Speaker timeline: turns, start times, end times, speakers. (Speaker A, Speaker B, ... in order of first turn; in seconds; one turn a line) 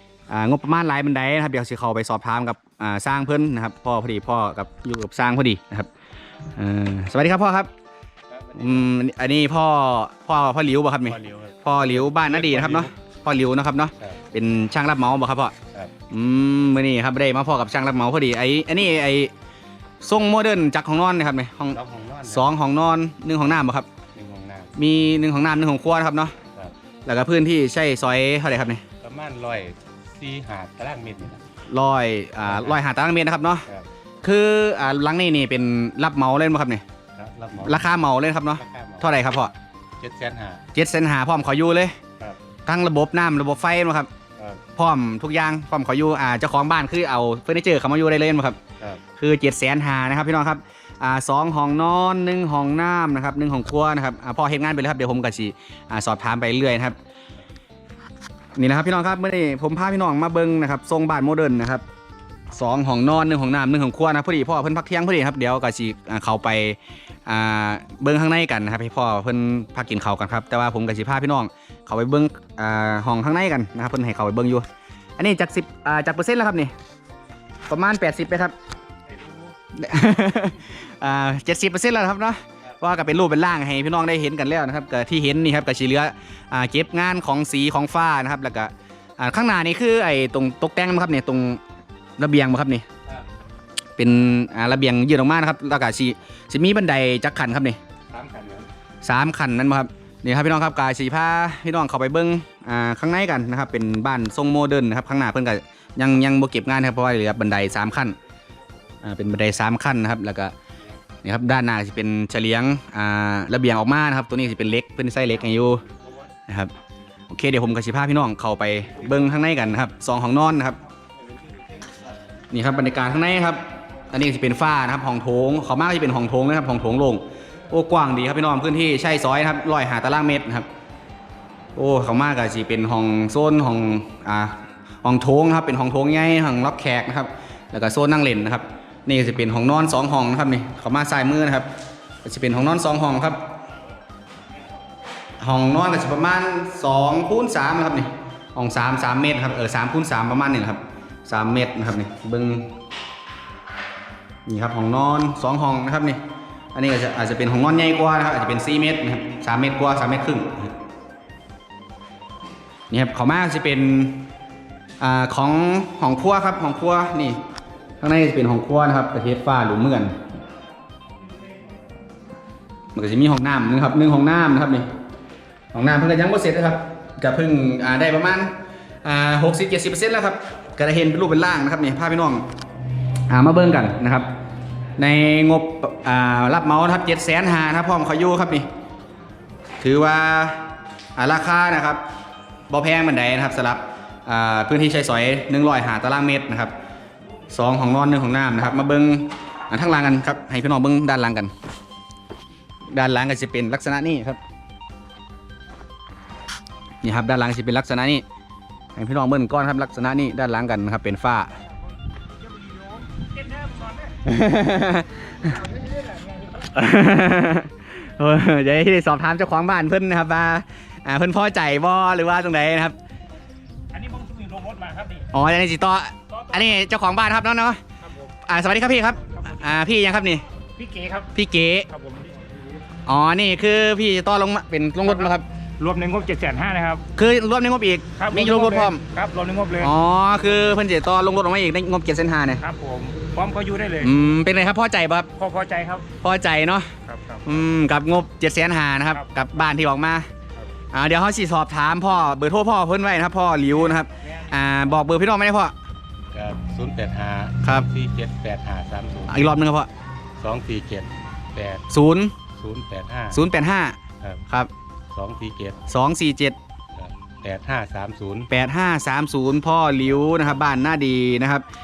Speaker A: 0.3-5.9
Speaker A: 6.5-7.7
Speaker B: 8.3-8.8
Speaker A: 8.5-15.5
Speaker B: 11.1-12.9
Speaker A: 16.1-19.3
Speaker A: 20.0-23.9
Speaker B: 21.7-22.5
Speaker B: 24.1-24.7
Speaker A: 24.8-26.3
Speaker A: 27.1-28.8
Speaker B: 29.0-31.4
Speaker A: 31.7-33.7
Speaker B: 32.4-32.8
Speaker A: 34.2-36.8
Speaker B: 37.1-37.8
Speaker A: 37.6-39.5
Speaker B: 38.6-39.1
Speaker B: 40.0-40.6
Speaker A: 40.7-42.0
Speaker A: 42.6-44.1
Speaker B: 44.4-44.6
Speaker A: 44.8-48.6
Speaker A: 49.2-57.0
Speaker A: 58.5-61.8
Speaker A: 62.5-74.6
Speaker A: 75.2-76.7
Speaker A: 77.7-78.5
Speaker A: 79.7-91.6
Speaker A: 92.2-92.9
Speaker A: 94.0-97.8
Speaker B: 98.1-98.7
Speaker A: 99.0-108.2
Speaker A: 109.0-110.5
Speaker A: 111.2-115.8
Speaker A: 117.3-120.8
Speaker A: 122.5-123.6
Speaker A: 124.1-130.7
Speaker A: 131.8-141.7
Speaker A: 142.2-143.4
Speaker A: 145.4-152.7
Speaker A: 154.4-156.2
Speaker A: 156.7-160.7
Speaker A: 162.9-164.2
Speaker A: 165.0-167.4
Speaker A: 168.0-170.2
Speaker A: 172.9-174.9
Speaker A: 175.7-178.5
Speaker A: 179.0-182.4
Speaker A: 183.3-184.3
Speaker A: 185.0-188.7
Speaker A: 189.8-192.0
Speaker A: 192.7-196.7
Speaker A: 197.5-201.5
Speaker A: 202.9-204.4
Speaker A: 207.0-208.2
Speaker A: 208.9-211.6
Speaker C: 212.4-214.1
Speaker A: 214.2-215.6
Speaker C: 215.5-216.7
Speaker A: 216.7-222.9
Speaker C: 223.9-225.3
Speaker A: 225.3-227.8
Speaker A: 228.4-230.4
Speaker C: 230.8-231.3
Speaker A: 231.3-231.9
Speaker C: 231.9-232.6
Speaker A: 233.1-235.4
Speaker C: 235.1-237.0
Speaker A: 237.2-239.0
Speaker C: 238.2-239.9
Speaker A: 239.8-242.6
Speaker C: 242.6-244.1
Speaker A: 244.0-245.3
Speaker C: 245.3-246.1
Speaker A: 246.2-246.9
Speaker C: 247.1-247.4
Speaker A: 247.4-250.3
Speaker A: 250.9-255.7
Speaker B: 256.3-259.6
Speaker A: 259.3-259.9
Speaker B: 260.4-261.8
Speaker A: 261.9-262.3
Speaker B: 262.6-263.4
Speaker A: 263.3-264.7
Speaker B: 265.1-265.8
Speaker A: 265.9-266.6
Speaker B: 266.9-268.5
Speaker A: 268.5-271.6